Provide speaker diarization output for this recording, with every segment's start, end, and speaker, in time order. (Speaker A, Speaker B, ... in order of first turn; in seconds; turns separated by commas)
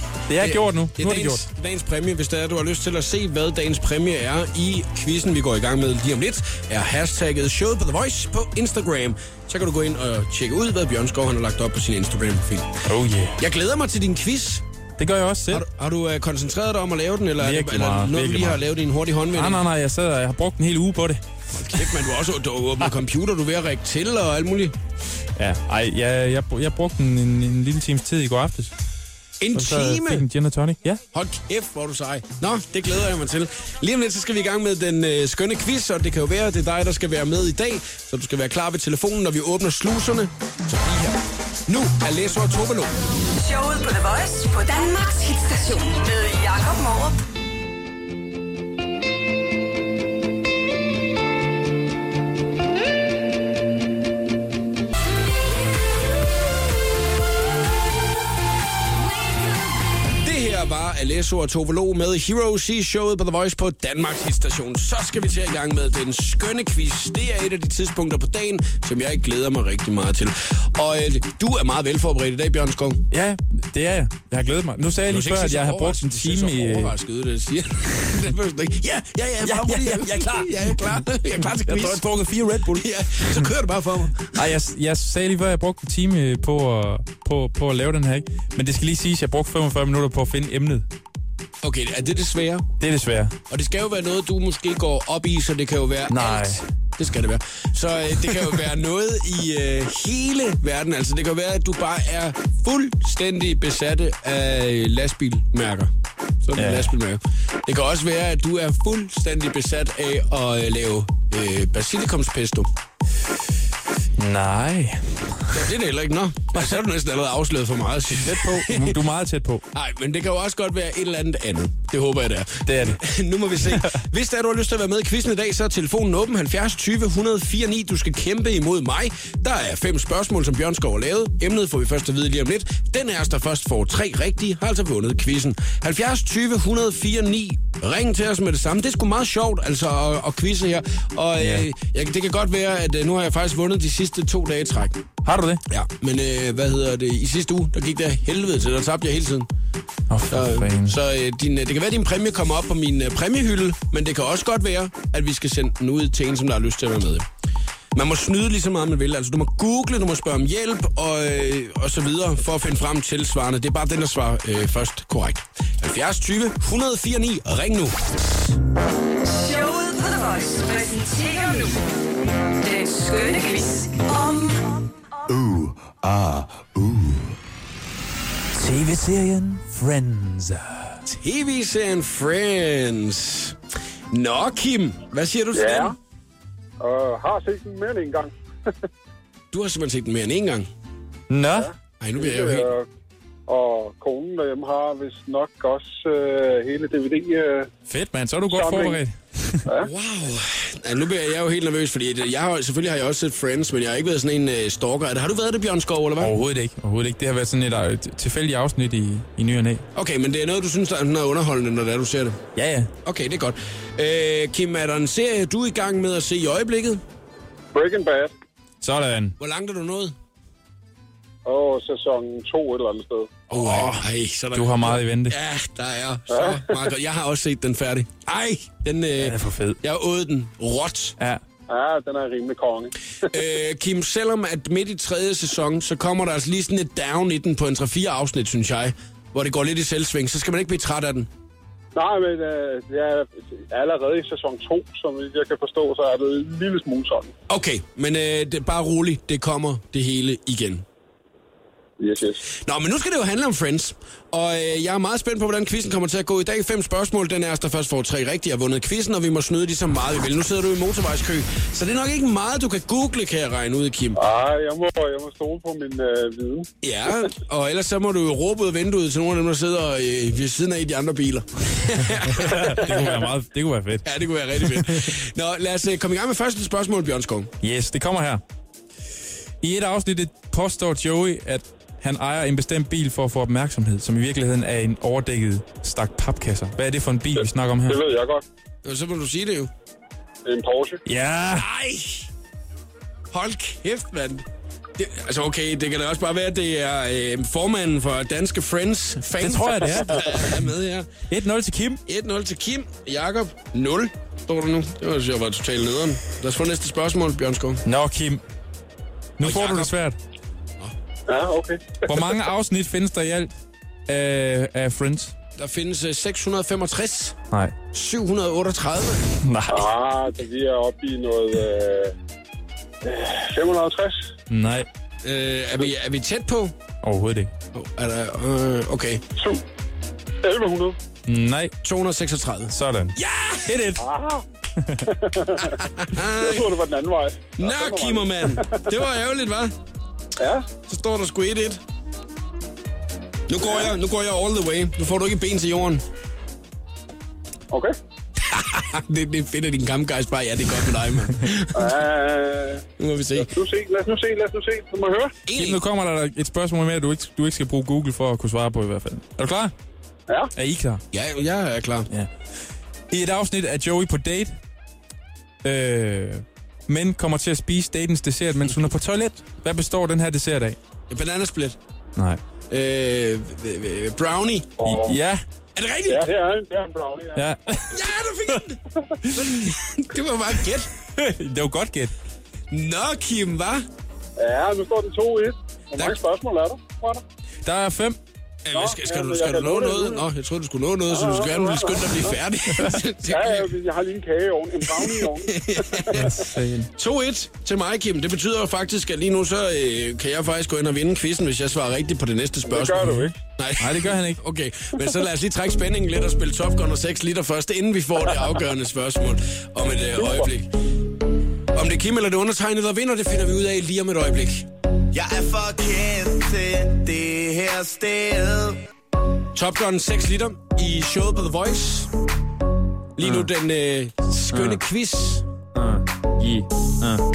Speaker A: 0.3-1.4, Speaker B: 0.4-12.8, Speaker A: 12.8-13.4, Speaker B: 13.4-14.6, Speaker A: 15.0-15.6, Speaker B: 15.5-19.6, Speaker A: 17.4-18.6, Speaker A: 19.3-21.2, Speaker B: 21.5-24.7, Speaker A: 25.4-28.7, Speaker B: 29.4-30.2, Speaker A: 29.5-31.0, Speaker B: 31.1-43.0, Speaker C: 43.3-47.2, Speaker B: 60.2-73.0, Speaker A: 73.1-76.9, Speaker B: 75.1-82.0, Speaker A: 79.4-80.9, Speaker A: 81.5-83.5, Speaker B: 82.7-84.4, Speaker A: 84.3-90.8, Speaker B: 91.6-92.7, Speaker A: 92.8-93.3, Speaker B: 93.5-105.9, Speaker A: 96.1-96.6, Speaker B: 106.4-112.7, Speaker A: 106.5-106.9, Speaker A: 114.2-115.6, Speaker B: 115.5-119.0, Speaker A: 118.1-119.6, Speaker B: 119.7-145.0, Speaker A: 122.7-123.0, Speaker A: 141.4-141.7, Speaker A: 145.2-145.6, Speaker B: 145.7-149.5, Speaker A: 150.1-151.0, Speaker B: 150.3-157.3, Speaker B: 157.9-168.2, Speaker C: 169.2-171.8, Speaker C: 172.5-174.8, Speaker A: 178.5-181.0, Speaker B: 181.1-183.6, Speaker B: 184.1-185.9, Speaker D: 185.5-185.9, Speaker D: 186.8-188.3, Speaker B: 189.5-190.7, Speaker A: 191.3-191.7, Speaker D: 191.5-192.8, Speaker B: 192.0-192.7, Speaker D: 193.5-197.7, Speaker A: 197.9-199.6, Speaker D: 198.5-199.0, Speaker B: 199.8-206.3, Speaker A: 206.2-209.8, Speaker B: 209.9-212.4, Speaker A: 212.5-212.9, Speaker B: 213.0-217.0, Speaker D: 217.7-218.3, Speaker A: 218.8-219.3, Speaker B: 219.4-220.1, Speaker D: 221.4-223.4, Speaker B: 223.5-231.2, Speaker A: 223.5-224.0, Speaker A: 224.5-225.3, Speaker D: 226.3-226.8, Speaker A: 229.2-229.8, Speaker D: 231.7-232.9, Speaker B: 233.2-241.3, Speaker D: 241.9-247.3, Speaker B: 247.5-250.8, Speaker D: 252.0-252.4, Speaker B: 252.6-264.2, Speaker D: 264.1-266.7, Speaker B: 266.8-273.0, Speaker A: 272.2-275.1, Speaker B: 274.0-277.5, Speaker A: 277.6-278.4, Speaker A: 279.6-288.0, Speaker D: 287.4-288.4, Speaker B: 288.8-289.7, Speaker D: 290.4-291.0, Speaker A: 291.1-291.7, Speaker B: 291.6-292.3, Speaker B: 293.3-294.4, Speaker B: 295.0-301.1, Speaker A: 299.4-300.6, Speaker A: 301.3-302.0, Speaker B: 302.1-307.8, Speaker A: 307.8-308.4, Speaker A: 309.4-310.2, Speaker B: 309.4-309.9, Speaker D: 311.3-312.1, Speaker A: 312.1-313.5, Speaker A: 314.1-315.3, Speaker B: 315.6-317.4, Speaker B: 317.9-319.2, Speaker A: 319.4-319.9, Speaker D: 319.7-322.1, Speaker D: 323.0-324.3, Speaker A: 324.5-324.9, Speaker B: 325.2-326.7, Speaker A: 327.0-327.5, Speaker B: 327.7-329.2, Speaker D: 329.4-329.6, Speaker D: 330.4-331.0, Speaker A: 331.3-331.7, Speaker B: 331.8-333.7, Speaker A: 332.7-334.0, Speaker D: 334.0-334.4, Speaker A: 334.8-335.0, Speaker D: 335.1-335.8, Speaker B: 335.9-336.7, Speaker D: 336.4-338.9, Speaker B: 337.6-339.7, Speaker D: 340.4-340.6, Speaker B: 340.9-341.8, Speaker B: 343.5-346.0, Speaker D: 347.7-347.9, Speaker B: 348.4-351.9, Speaker D: 351.7-352.8, Speaker B: 353.0-353.5, Speaker D: 353.4-355.3, Speaker B: 355.4-355.8, Speaker A: 355.5-359.7, Speaker A: 360.5-361.0, Speaker B: 361.1-362.1, Speaker A: 363.1-364.6, Speaker A: 365.6-370.8, Speaker B: 371.1-371.8, Speaker A: 372.1-372.4, Speaker B: 372.7-374.8, Speaker D: 374.8-375.2, Speaker A: 374.8-375.4, Speaker B: 375.7-376.3, Speaker D: 376.1-377.5, Speaker A: 377.4-377.9, Speaker B: 377.9-378.8, Speaker A: 379.2-379.7, Speaker B: 379.4-380.9, Speaker A: 381.1-382.1, Speaker B: 382.7-383.8, Speaker D: 384.4-387.2, Speaker A: 387.6-388.2, Speaker B: 388.6-393.7, Speaker D: 388.7-390.2, Speaker D: 391.1-392.4, Speaker D: 393.3-396.3, Speaker B: 395.4-396.2, Speaker A: 396.1-396.9, Speaker B: 396.9-410.7, Speaker D: 402.7-403.3, Speaker A: 403.8-404.4, Speaker D: 410.2-410.5, Speaker B: 411.7-414.7, Speaker E: 415.1-418.8, Speaker B: 419.5-422.1, Speaker B: 423.2-425.4, Speaker A: 423.2-423.5, Speaker A: 424.5-424.8, Speaker A: 425.7-427.2